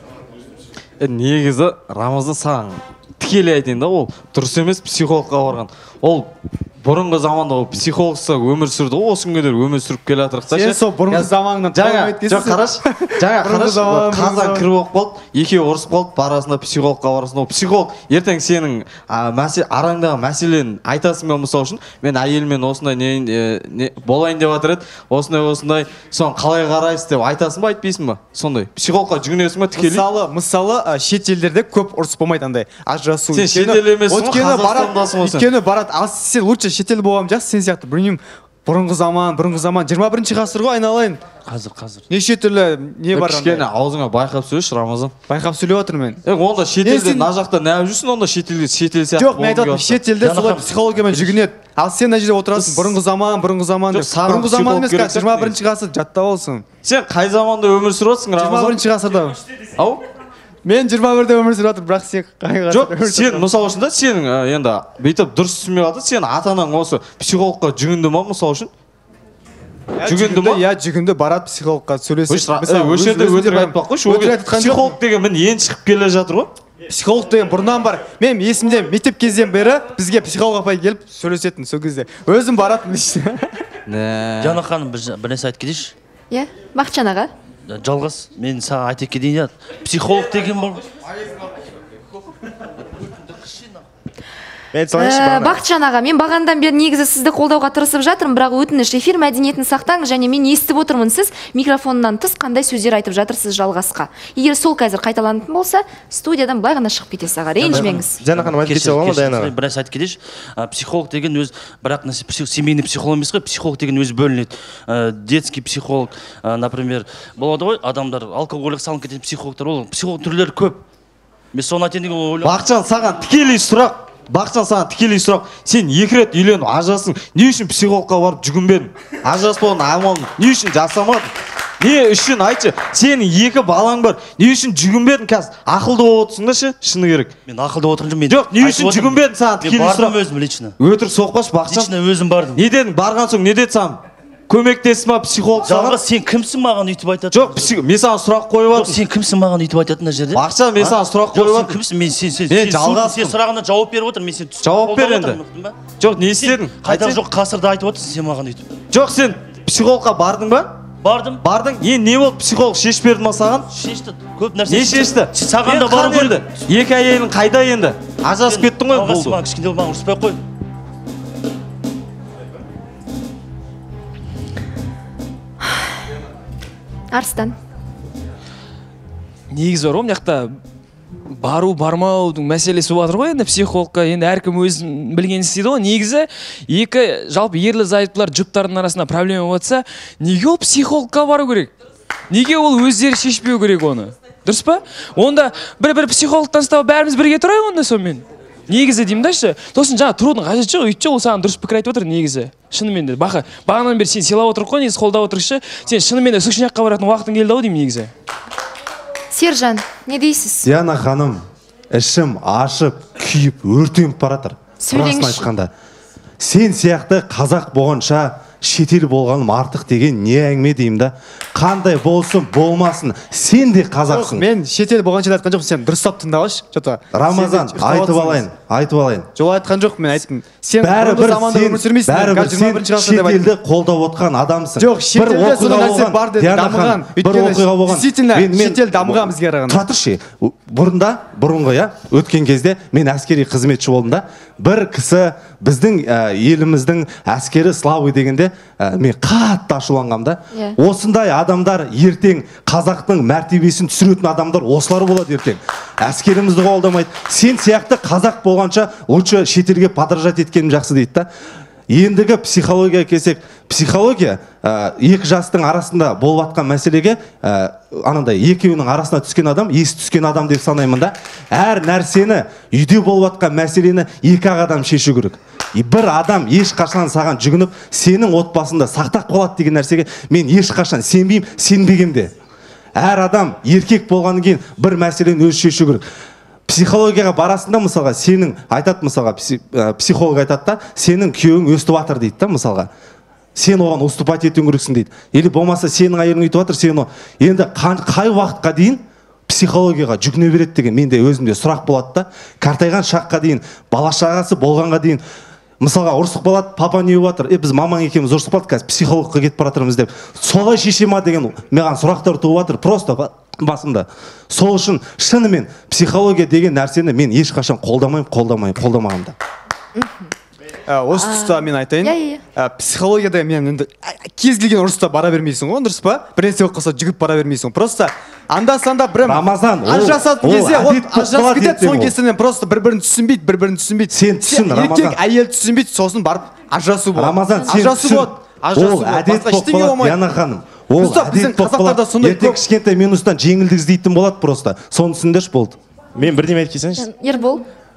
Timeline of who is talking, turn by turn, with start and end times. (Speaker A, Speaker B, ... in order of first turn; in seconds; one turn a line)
Speaker A: 1.0-6.3
Speaker A: 6.8-30.0
Speaker B: 10.5-14.7
Speaker B: 29.7-41.2
Speaker A: 33.3-35.5
Speaker C: 41.4-42.1
Speaker B: 42.1-43.7
Speaker A: 43.1-45.1
Speaker B: 45.3-46.2
Speaker A: 46.2-50.0
Speaker B: 46.8-47.3
Speaker B: 49.2-56.7
Speaker C: 50.2-51.4
Speaker A: 52.5-52.9
Speaker A: 53.9-55.5
Speaker A: 56.8-58.8
Speaker B: 58.4-59.4
Speaker B: 60.6-63.5
Speaker A: 62.7-68.7
Speaker B: 70.0-75.0
Speaker A: 70.0-70.6
Speaker A: 72.3-76.5
Speaker B: 76.9-83.6
Speaker A: 83.9-84.6
Speaker C: 84.4-85.9
Speaker D: 86.3-87.3
Speaker C: 87.7-90.8
Speaker E: 94.7-95.6
Speaker D: 94.9-108.2
Speaker C: 107.6-120.8
Speaker E: 107.7-109.5
Speaker C: 121.5-122.7
Speaker A: 122.4-137.3
Speaker C: 137.5-140.8
Speaker A: 138.3-140.2
Speaker A: 140.8-141.9
Speaker C: 141.7-142.6
Speaker A: 142.6-146.0
Speaker C: 145.6-147.7
Speaker A: 147.3-149.0
Speaker C: 148.7-158.7
Speaker A: 150.3-151.8
Speaker A: 152.5-153.3
Speaker A: 154.6-155.4
Speaker A: 156.0-157.2
Speaker A: 158.9-160.7
Speaker C: 161.0-161.4
Speaker A: 161.4-163.7
Speaker C: 163.7-166.6
Speaker A: 164.7-169.4
Speaker C: 168.4-170.4
Speaker D: 177.1-177.6
Speaker F: 179.5-180.6
Speaker F: 181.3-191.7
Speaker F: 192.3-208.1
Speaker D: 209.3-210.7
Speaker G: 210.6-215.7
Speaker D: 214.8-215.5
Speaker G: 216.4-224.5
Speaker B: 224.1-228.4
Speaker G: 227.1-229.3
Speaker B: 229.3-233.5
Speaker G: 230.8-261.3
Speaker B: 234.8-239.8
Speaker D: 250.5-250.8
Speaker G: 261.9-282.3
Speaker G: 283.0-286.1
Speaker G: 286.7-292.9
Speaker G: 293.6-305.2
Speaker G: 305.8-319.4
Speaker D: 320.0-320.3
Speaker B: 320.9-340.2
Speaker D: 321.2-322.4
Speaker G: 329.2-332.1
Speaker G: 334.1-335.2
Speaker G: 337.1-345.8
Speaker B: 341.0-342.6
Speaker E: 346.2-347.1
Speaker D: 347.0-347.6